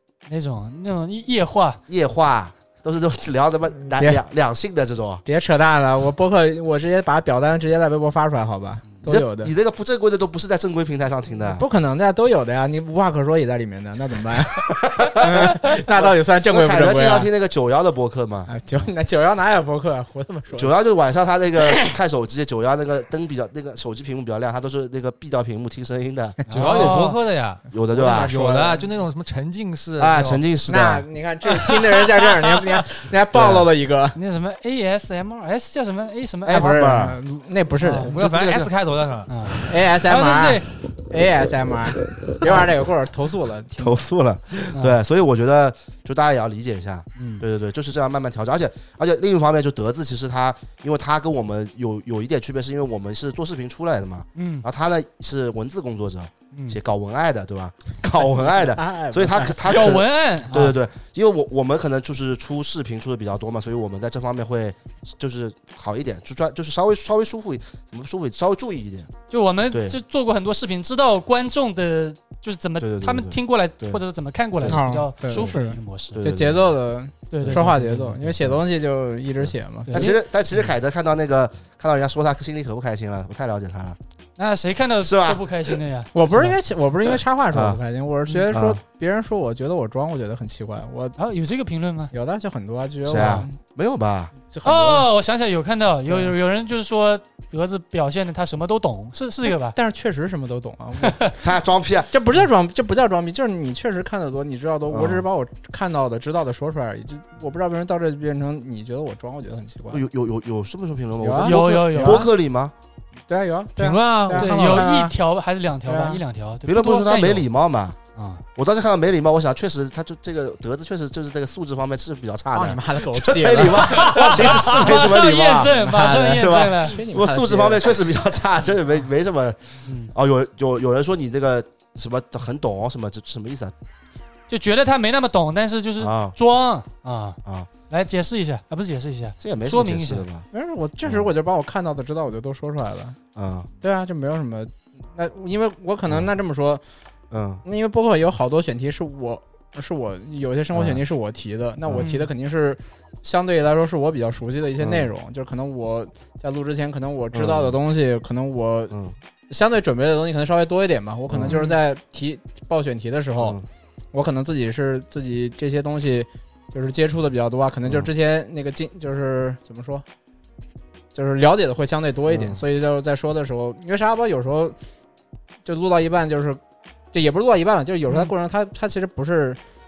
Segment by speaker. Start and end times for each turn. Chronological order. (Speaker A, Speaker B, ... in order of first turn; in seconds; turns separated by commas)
Speaker A: 0.3-1.8, Speaker B: 1.9-5.2, Speaker C: 4.0-4.2, Speaker C: 5.2-9.5, Speaker B: 9.0-11.6, Speaker C: 11.4-17.3, Speaker B: 14.7-18.5, Speaker C: 18.5-20.7, Speaker B: 20.5-26.4, Speaker C: 26.4-27.0, Speaker A: 26.5-27.2, Speaker D: 26.5-30.4, Speaker B: 27.7-28.3, Speaker C: 27.9-28.9, Speaker B: 30.0-31.1, Speaker C: 30.7-34.2, Speaker B: 33.3-33.7, Speaker A: 34.1-36.9, Speaker B: 36.5-37.2, Speaker C: 36.5-38.1, Speaker A: 37.8-38.1, Speaker D: 38.0-39.3, Speaker B: 38.1-38.7, Speaker A: 39.3-40.7, Speaker C: 39.6-44.0, Speaker B: 42.2-42.6, Speaker B: 43.8-69.1, Speaker A: 44.7-45.0, Speaker A: 47.2-47.5, Speaker A: 54.4-54.7, Speaker A: 56.5-56.8, Speaker C: 58.4-60.0, Speaker A: 59.6-60.8, Speaker A: 69.3-76.2, Speaker B: 69.7-70.0, Speaker B: 72.8-74.0, Speaker B: 74.6-74.9, Speaker C: 74.7-80.2, Speaker B: 76.2-76.7, Speaker A: 77.3-78.3, Speaker B: 77.4-78.6, Speaker B: 79.4-84.0, Speaker A: 79.9-80.7, Speaker A: 84.4-86.1, Speaker B: 85.0-85.8, Speaker C: 86.1-91.2, Speaker B: 87.1-87.8, Speaker B: 88.5-88.8, Speaker A: 91.2-92.1, Speaker C: 92.1-93.6, Speaker B: 93.0-94.3, Speaker A: 93.1-93.5, Speaker C: 94.5-95.1, Speaker A: 94.7-99.8, Speaker C: 96.1-96.3, Speaker C: 99.5-101.3, Speaker A: 101.0-101.3, Speaker B: 101.4-102.1, Speaker C: 102.1-110.0, Speaker B: 104.9-105.3, Speaker B: 109.9-112.7, Speaker C: 111.2-112.3, Speaker A: 111.4-112.3, Speaker C: 113.3-115.1, Speaker D: 113.8-114.9, Speaker A: 114.3-117.5, Speaker C: 115.9-116.2, Speaker B: 116.7-118.0, Speaker A: 118.2-118.5, Speaker B: 118.6-125.7, Speaker C: 122.5-127.9, Speaker A: 123.6-127.0, Speaker B: 126.3-133.7, Speaker A: 129.9-130.1, Speaker A: 134.5-140.3, Speaker B: 136.0-136.4, Speaker B: 139.4-140.5, Speaker C: 140.5-143.2, Speaker B: 141.0-141.3, Speaker B: 143.3-143.7, Speaker C: 143.8-146.8, Speaker B: 147.3-147.6, Speaker C: 147.6-158.9, Speaker B: 150.7-151.0, Speaker B: 151.8-152.1, Speaker A: 152.0-152.3, Speaker B: 154.8-155.1, Speaker B: 157.3-157.8, Speaker C: 159.5-163.6, Speaker B: 161.3-161.6, Speaker A: 161.5-161.8, Speaker B: 163.4-163.7, Speaker C: 164.1-170.1, Speaker B: 167.9-168.1, Speaker C: 171.1-174.8, Speaker B: 172.3-172.6, Speaker C: 175.6-176.6, Speaker C: 177.1-179.6, Speaker A: 178.1-178.3